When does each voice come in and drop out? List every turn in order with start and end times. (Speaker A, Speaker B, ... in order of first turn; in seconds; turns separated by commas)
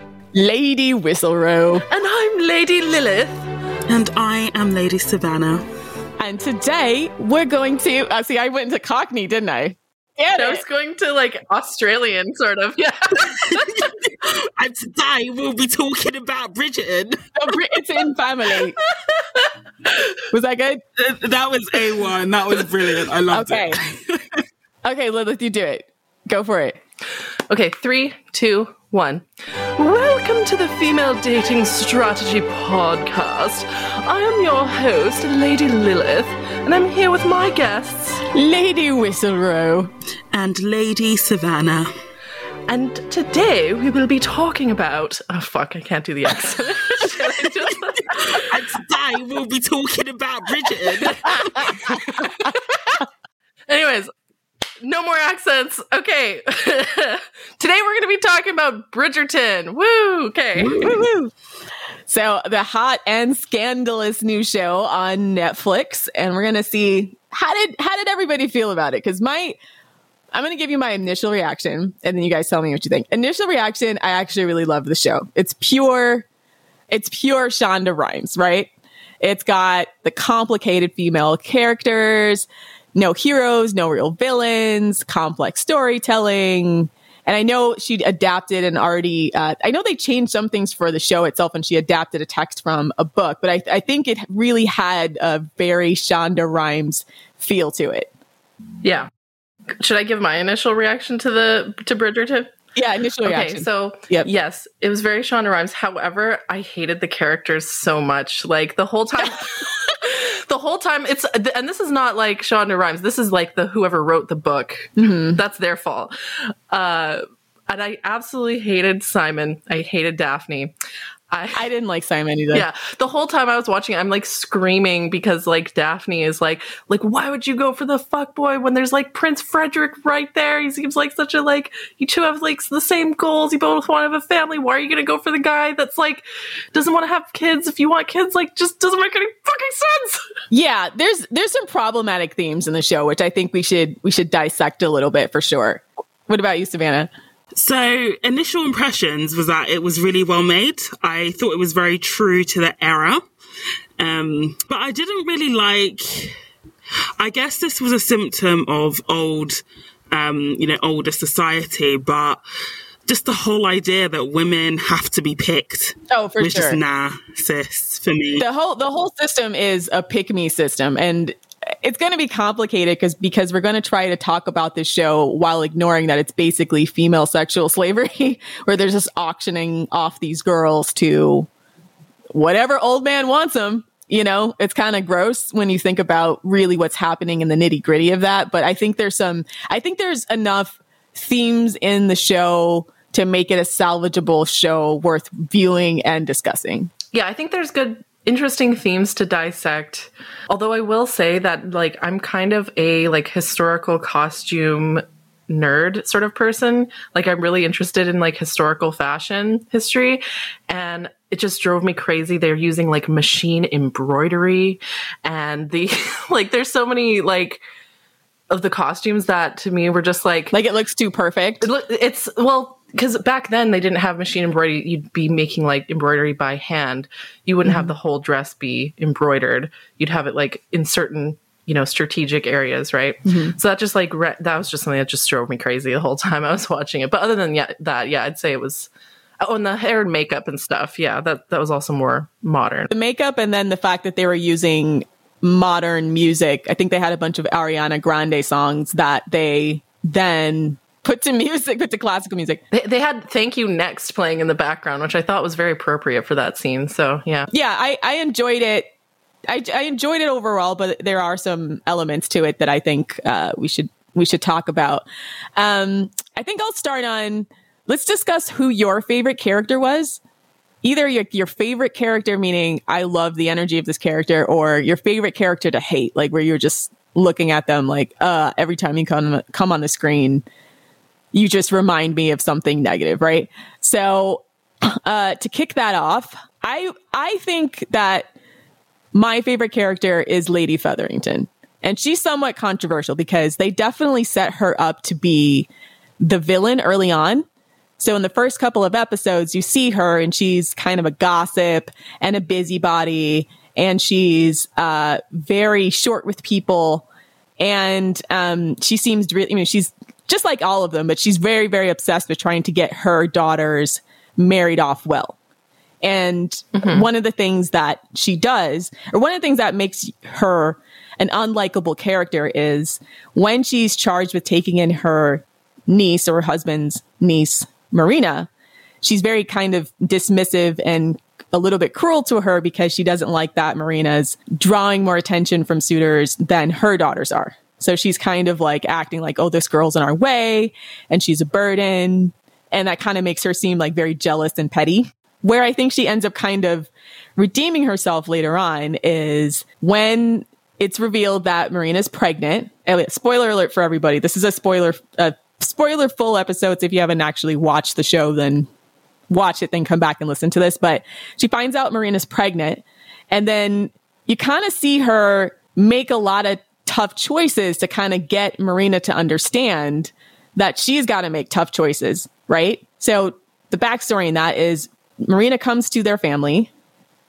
Speaker A: 0.3-1.9, Speaker B: 1.9-3.5, Speaker C: 3.9-5.7, Speaker A: 6.2-10.6, Speaker B: 10.4-13.8, Speaker C: 13.2-17.6, Speaker A: 17.4-18.8, Speaker B: 18.9-20.0, Speaker A: 20.3-20.8, Speaker C: 21.0-24.4, Speaker A: 23.3-23.8, Speaker A: 24.8-26.8, Speaker B: 27.5-29.3, Speaker B: 29.8-38.2, Speaker A: 38.3-39.9, Speaker C: 40.3-41.9, Speaker B: 42.7-48.6, Speaker C: 47.1-52.3, Speaker B: 51.0-53.0, Speaker B: 53.7-54.1, Speaker B: 54.8-61.0, Speaker A: 60.6-61.3, Speaker A: 62.1-69.6, Speaker A: 70.3-76.3, Speaker A: 76.9-78.7, Speaker A: 79.2-98.1, Speaker B: 98.8-99.1, Speaker B: 99.8-102.5, Speaker A: 102.8-104.3, Speaker B: 103.2-120.7, Speaker A: 115.0-115.4, Speaker B: 121.3-121.7, Speaker A: 121.5-122.7, Speaker B: 122.5-140.3, Speaker A: 140.5-147.1, Speaker C: 147.6-153.2, Speaker C: 154.0-156.4, Speaker C: 157.2-162.4, Speaker C: 163.1-168.4, Speaker A: 166.1-166.8, Speaker A: 168.4-181.5, Speaker A: 182.3-196.9, Speaker B: 197.1-217.6, Speaker B: 218.5-220.5, Speaker A: 220.5-221.7, Speaker B: 221.6-238.9, Speaker A: 227.7-227.9, Speaker A: 233.3-233.6, Speaker B: 239.4-242.9, Speaker A: 242.9-252.6, Speaker B: 252.7-257.5, Speaker A: 257.5-258.9, Speaker A: 259.5-265.1, Speaker A: 265.6-270.2, Speaker A: 270.8-280.4, Speaker A: 281.3-288.3, Speaker A: 289.1-295.7, Speaker A: 296.2-297.4, Speaker A: 298.0-307.1, Speaker A: 307.6-315.4, Speaker A: 316.0-328.5, Speaker B: 316.8-317.1, Speaker A: 329.0-358.7, Speaker A: 359.3-376.7